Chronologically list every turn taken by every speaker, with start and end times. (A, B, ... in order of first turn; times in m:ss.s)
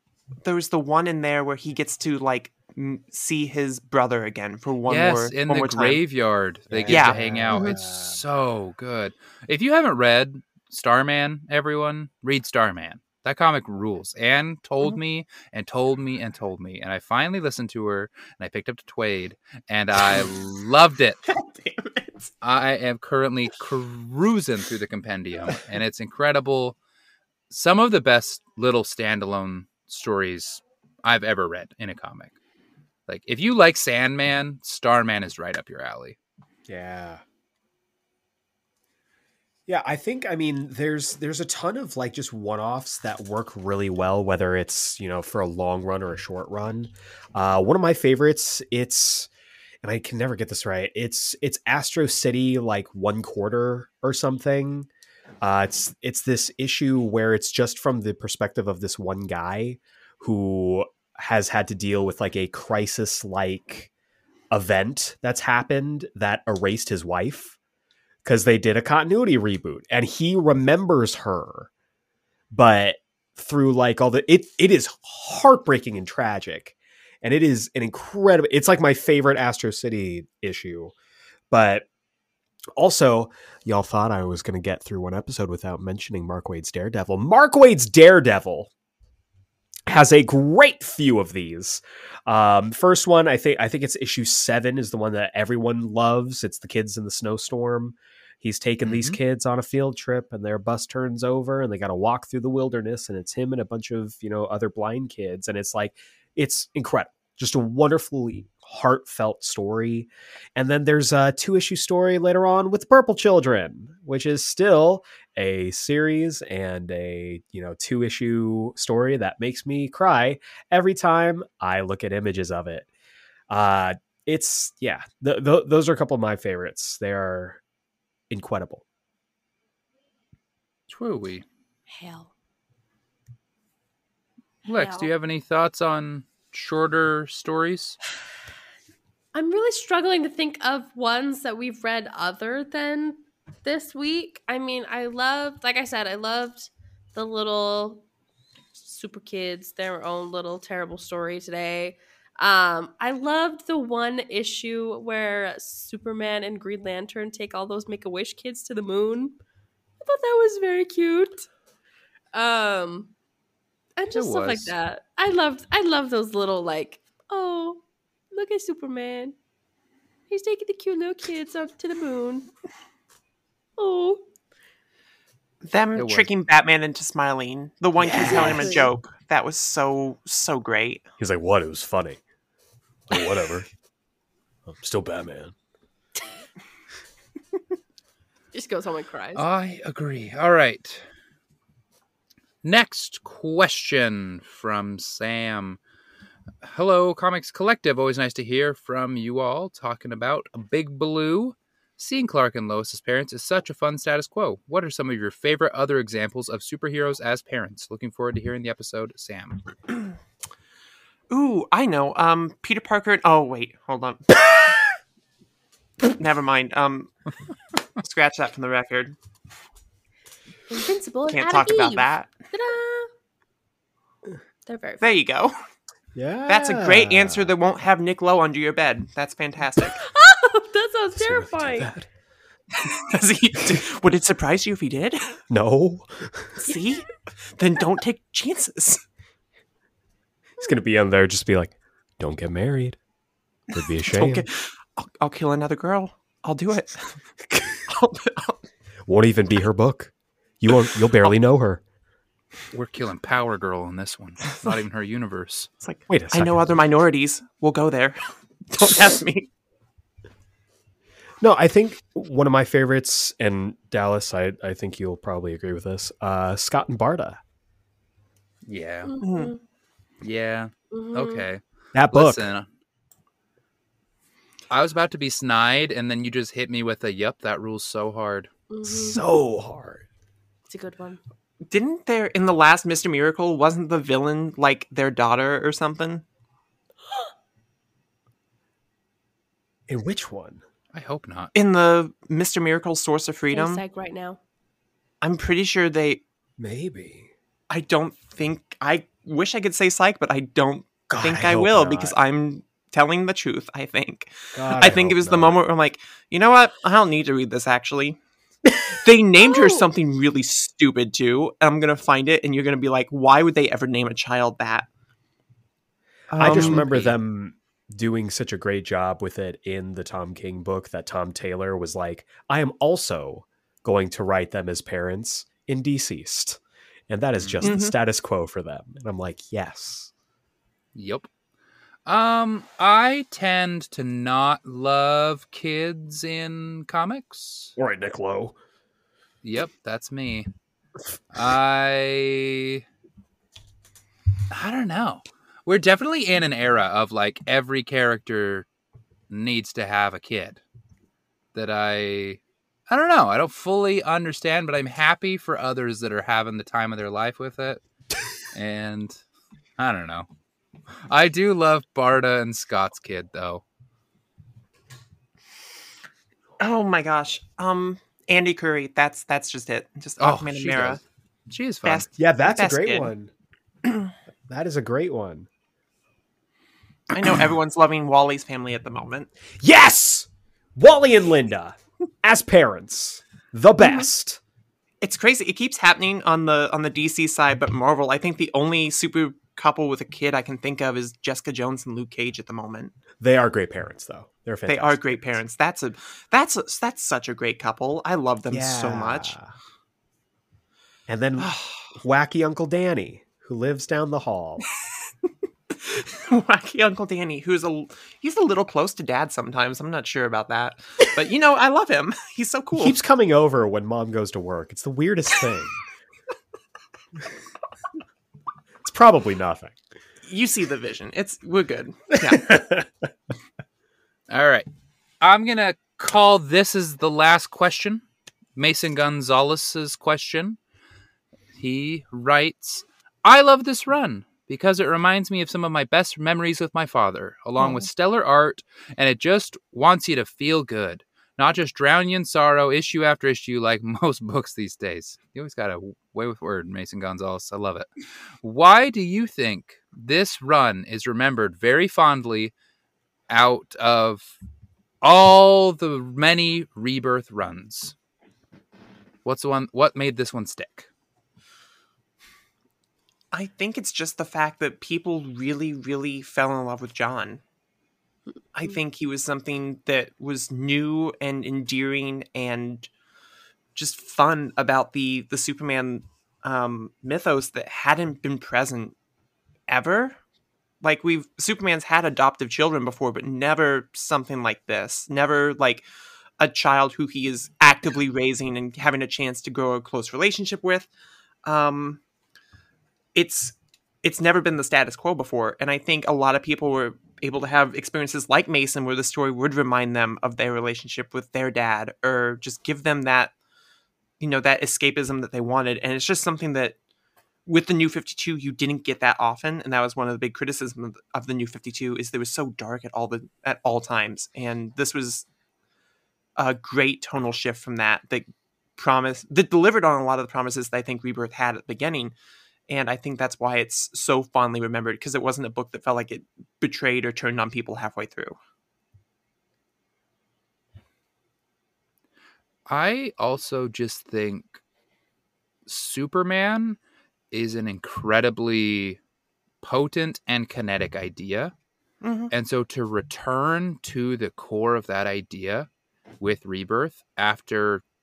0:00.4-0:06.0 A
0:04.9-0:21.2 B
0:06.7-0:08.2 C
0:06.9-0:07.7 A
0:21.3-0:22.3 A
0:22.4-0:26.8 B
0:27.5-0:32.4 B
0:33.1-0:36.2 B
0:36.7-0:37.2 C
0:39.7-0:49.3 C
0:49.8-0:54.9 C
0:55.4-1:03.9 C
1:04.5-1:07.6 C
1:08.2-1:11.7 C
1:12.5-1:20.9 C
1:21.5-1:21.9 C
1:22.8-1:28.7 C
1:29.9-2:02.9 C
1:38.8-1:39.2 B
2:03.5-2:07.6 C
2:08.3-2:08.8 C
2:10.9-2:11.4 B
2:11.9-2:12.3 D
2:14.7-2:15.1 D
2:14.7-2:18.0 B
2:19.3-2:28.0 D
2:28.8-2:39.4 D
2:40.0-2:41.5 D
2:42.3-2:43.1 D
2:44.0-2:49.4 D
2:44.1-2:44.7 B
2:50.3-2:52.5 D
2:53.8-2:54.2 D
2:55.6-3:01.0 A
2:56.0-2:56.3 B
2:58.0-2:58.7 B
2:58.1-2:58.9 D
3:01.2-3:02.2 C
3:03.1-3:03.7 C
3:04.7-3:05.5 C
3:08.5-3:09.4 D
3:09.3-3:11.0 B
3:12.6-3:15.8 B
3:16.6-3:29.6 B
3:31.3-3:34.7 A
3:36.0-3:37.1 A
3:38.0-3:39.2 A
3:40.7-3:43.1 D
3:41.3-3:42.3 A
3:44.7-3:45.2 D
3:45.0-3:45.6 A
3:46.1-3:47.5 C
3:46.5-3:50.0 A
3:49.8-3:51.9 D
3:51.2-3:52.0 C
3:52.7-3:55.4 A
3:55.5-3:56.6 C
3:56.6-3:59.0 A
4:00.6-4:03.0 C
4:03.7-4:04.5 C
4:04.1-4:07.2 A
4:07.9-4:08.6 A
4:09.1-4:11.8 C
4:12.7-4:15.7 B
4:15.8-4:19.5 A
4:16.1-4:16.8 C
4:21.4-4:27.4 C
4:28.7-4:29.2 B
4:29.0-4:29.6 D
4:29.2-4:29.5 A
4:30.2-4:32.7 B
4:30.9-4:31.4 D
4:31.9-4:32.5 C
4:34.7-4:38.5 B
4:38.7-4:39.2 D
4:38.8-4:40.0 C
4:40.7-4:41.2 D
4:41.7-4:46.2 A
4:49.9-4:50.6 C
4:50.9-4:51.5 B
4:51.5-4:53.8 A
4:53.5-4:54.4 D
4:55.2-4:56.2 A
4:56.6-4:57.3 C
4:57.7-5:08.2 A
5:01.1-5:02.2 C
5:04.5-5:05.6 C
5:08.9-5:14.9 A
5:16.3-5:16.8 A
5:16.3-5:30.1 C
5:16.4-5:17.2 B
5:27.4-5:27.6 B
5:27.6-5:27.9 A
5:31.0-5:31.3 B
5:32.0-5:37.7 B
5:37.8-5:38.5 C
5:39.4-5:40.5 B
5:41.3-5:42.8 B
5:44.5-5:48.7 B
5:49.3-5:50.6 B
5:51.5-5:57.8 B
5:58.5-5:59.2 B
5:59.8-6:00.3 B
6:01.1-6:03.6 B
6:06.6-6:11.0 A
6:10.2-6:12.1 B
6:11.8-6:13.1 A
6:12.2-6:13.3 C
6:14.5-6:15.5 C
6:17.1-6:19.3 A
6:19.6-6:24.4 C
6:25.0-6:32.9 A
6:33.2-6:35.0 C
6:34.7-6:39.3 A
6:38.5-6:39.5 C
6:41.1-6:44.6 C
6:41.4-6:41.9 A
6:45.7-6:53.0 A
6:52.8-6:55.8 C
6:58.8-6:59.8 C
7:00.3-7:02.5 A
7:02.3-7:02.9 C
7:04.3-7:04.7 B
7:05.2-7:08.0 B
7:08.6-7:10.6 B
7:11.5-7:27.9 B
7:17.6-7:17.8 A
7:28.4-7:32.5 B
7:33.3-7:34.3 B
7:35.0-7:37.9 B
7:39.2-7:40.9 B
7:43.3-7:47.4 A
7:48.5-7:52.9 A
7:53.8-7:59.0 A
7:59.7-8:00.2 A
8:00.8-8:05.8 A
8:06.4-8:10.9 A
8:11.4-8:12.0 A
8:13.1-8:23.3 A
8:24.2-8:26.8 A
8:27.5-8:35.2 A
8:36.4-8:38.2 A
8:38.8-8:42.1 A
8:42.7-8:48.4 A
8:52.7-8:54.6 B
8:55.7-8:56.8 B
8:57.3-8:59.0 B
8:59.6-9:01.5 B
9:02.0-9:02.3 A
9:02.3-9:05.7 B
9:06.2-9:07.8 B